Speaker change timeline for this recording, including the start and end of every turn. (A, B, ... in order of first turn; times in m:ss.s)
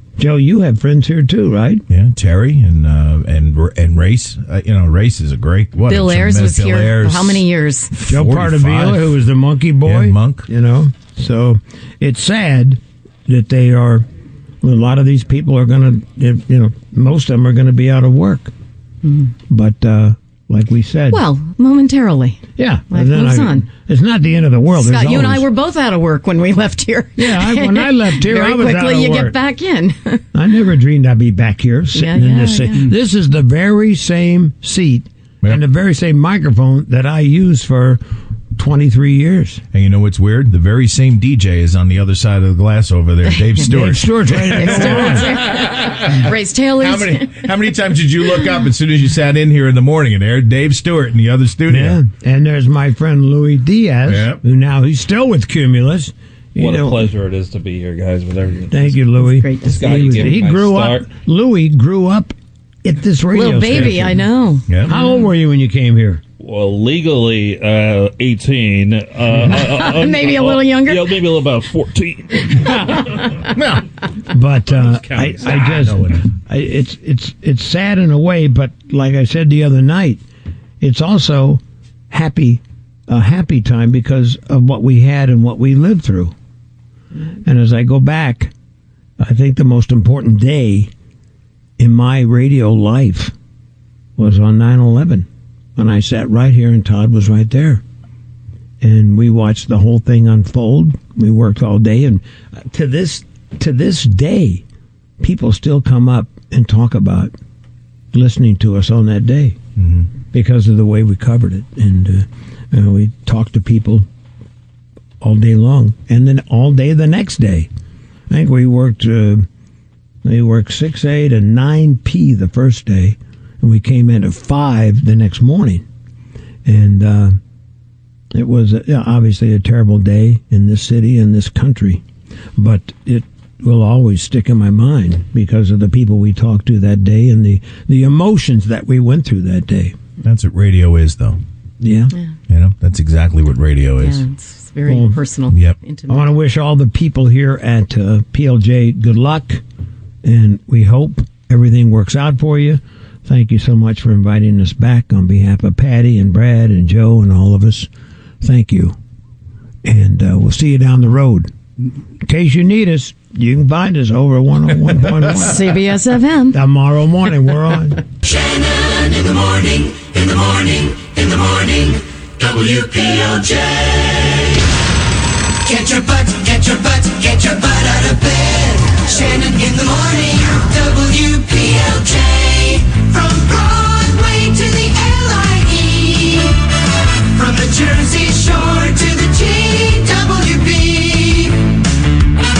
0:00.2-0:01.8 A
0:01.9-0:09.2 B
0:05.9-0:07.9 C
0:08.1-0:14.0 A
0:09.8-0:10.4 B
0:14.6-0:18.5 A
0:19.0-0:19.3 C
0:19.5-0:21.2 A
0:21.1-0:23.7 C
0:22.6-0:25.4 A
0:24.7-0:30.2 C
0:27.2-0:29.3 A
0:30.3-0:38.0 A
0:31.9-0:32.9 C
0:38.5-0:39.6 A
0:39.7-0:52.0 B
0:43.6-0:45.4 A
0:44.4-0:47.4 C
0:51.7-0:57.1 A
0:54.1-0:54.4 B
0:56.6-0:59.0 D
0:58.7-1:04.2 A
0:59.2-1:00.4 C
0:59.6-1:01.1 D
1:03.3-1:05.2 C
1:04.8-1:06.2 A
1:06.4-1:13.1 D
1:09.5-1:11.2 C
1:13.5-1:13.8 B
1:14.3-1:20.2 A
1:14.7-1:16.0 D
1:15.4-1:16.2 B
1:20.8-1:26.3 A
1:27.4-1:28.5 A
1:29.2-1:30.9 A
1:31.8-1:33.3 A
1:34.2-1:37.8 A
1:38.8-1:44.6 A
1:45.2-1:47.3 A
1:48.1-1:49.6 A
1:49.8-1:50.1 B
1:50.3-1:54.0 A
1:55.2-1:57.7 A
1:58.3-1:59.5 A
2:00.2-2:05.8 A
2:06.6-2:07.4 A
2:08.3-2:12.0 A
2:12.6-2:20.0 A
2:20.2-2:21.4 B
2:21.8-2:22.1 A
2:22.5-2:24.2 B
2:24.0-2:26.3 C
2:24.8-2:25.2 A
2:25.5-2:25.8 B
2:26.1-2:29.6 A
2:30.2-2:37.9 A
2:38.4-2:39.0 A
2:39.8-2:41.5 A
2:42.2-2:45.7 A
2:45.3-2:46.6 C
2:46.5-2:48.0 A
2:48.2-2:54.6 E
2:55.6-3:06.6 E
3:07.3-3:11.7 E